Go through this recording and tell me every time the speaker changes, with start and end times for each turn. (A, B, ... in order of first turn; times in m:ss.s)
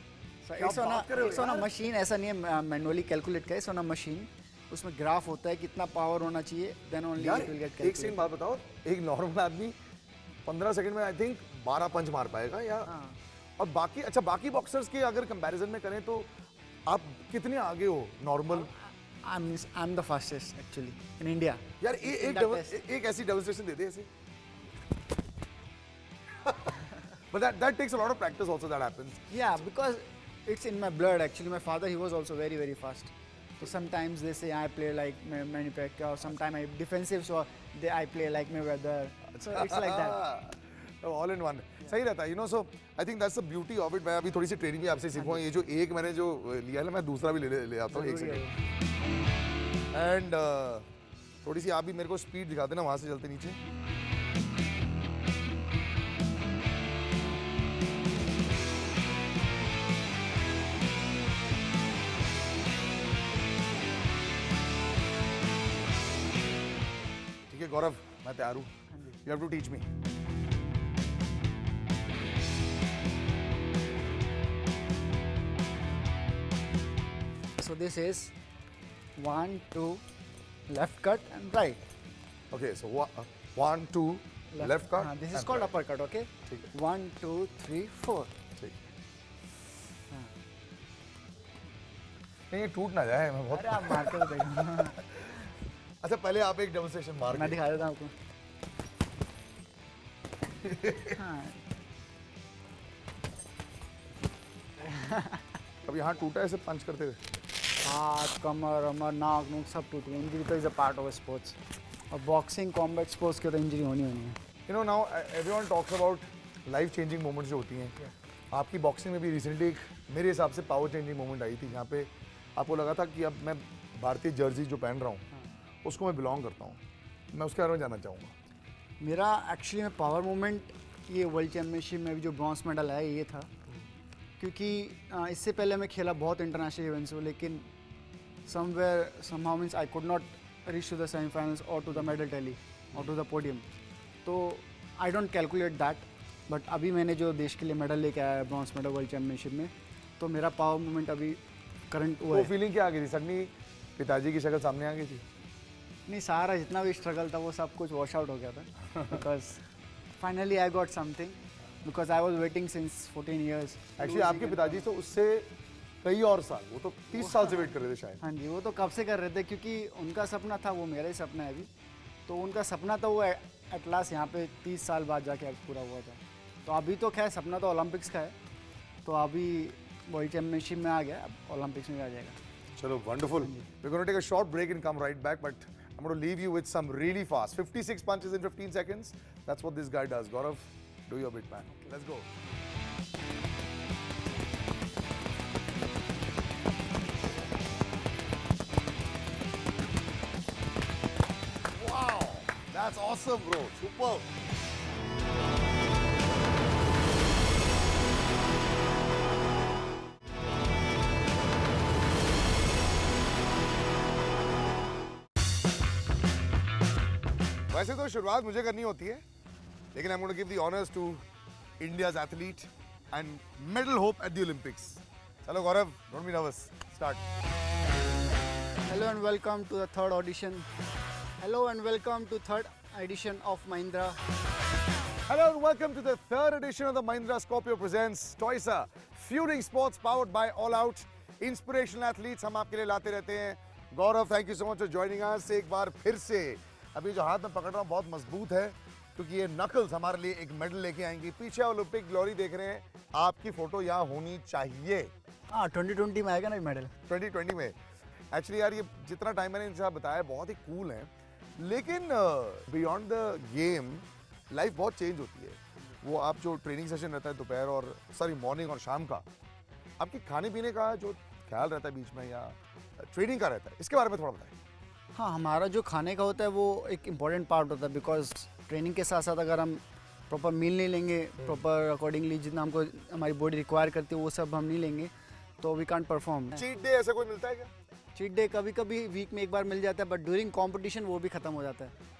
0:00.4-0:08.2 A
0:00.6-0:01.7 B
0:07.2-0:09.8 B
0:10.4-0:12.9 B
0:12.9-0:13.2 A
0:13.6-0:16.3 B
0:16.9-0:18.7 B
0:18.5-0:22.8 A
0:21.8-0:24.1 B
0:26.4-0:26.8 B
0:27.3-0:29.2 B
0:29.3-0:40.2 A
0:39.4-0:48.4 B
0:45.1-0:45.4 A
0:47.9-0:48.5 A
0:49.9-0:50.8 B
0:51.4-0:53.6 B
1:07.5-1:09.9 B
1:17.6-1:18.3 A
1:19.2-1:20.0 A
1:20.7-1:21.8 A
1:22.5-1:25.7 B
1:24.5-1:28.3 A
1:28.6-1:28.8 B
1:32.5-1:35.3 B
1:33.5-1:35.0 A
1:36.0-1:37.6 B
1:37.3-1:38.1 A
1:40.6-1:41.2 B
1:41.2-1:41.6 A
1:44.8-1:45.4 A
1:45.8-1:47.2 B
1:47.8-1:51.6 A
1:52.1-1:54.4 A
1:54.7-1:58.0 B
1:58.5-2:05.2 B
2:05.8-2:06.8 B
2:07.3-2:08.3 B
2:09.0-2:13.5 A
2:14.4-2:17.7 A
2:18.4-2:23.6 A
2:24.2-2:32.5 A
2:32.3-2:35.2 B
2:36.1-2:39.6 A
2:40.2-2:44.8 A
2:44.0-2:45.5 B
2:46.0-2:48.2 B
2:47.2-2:47.7 A
2:48.2-2:51.7 A
2:52.3-2:58.3 A
2:59.0-3:02.4 A
3:02.8-3:12.3 B
3:21.7-3:24.3 B
3:37.7-3:39.2 B
3:39.9-3:41.2 B
3:41.8-3:47.2 B
3:48.8-3:50.7 A
3:51.4-3:54.2 A
3:55.3-4:15.1 B
4:15.5-4:16.9 A
4:17.1-4:17.8 B
4:18.3-4:29.2 B
4:30.0-4:34.5 B
4:35.1-4:46.6 A
4:46.5-4:47.7 B
4:48.1-4:51.9 A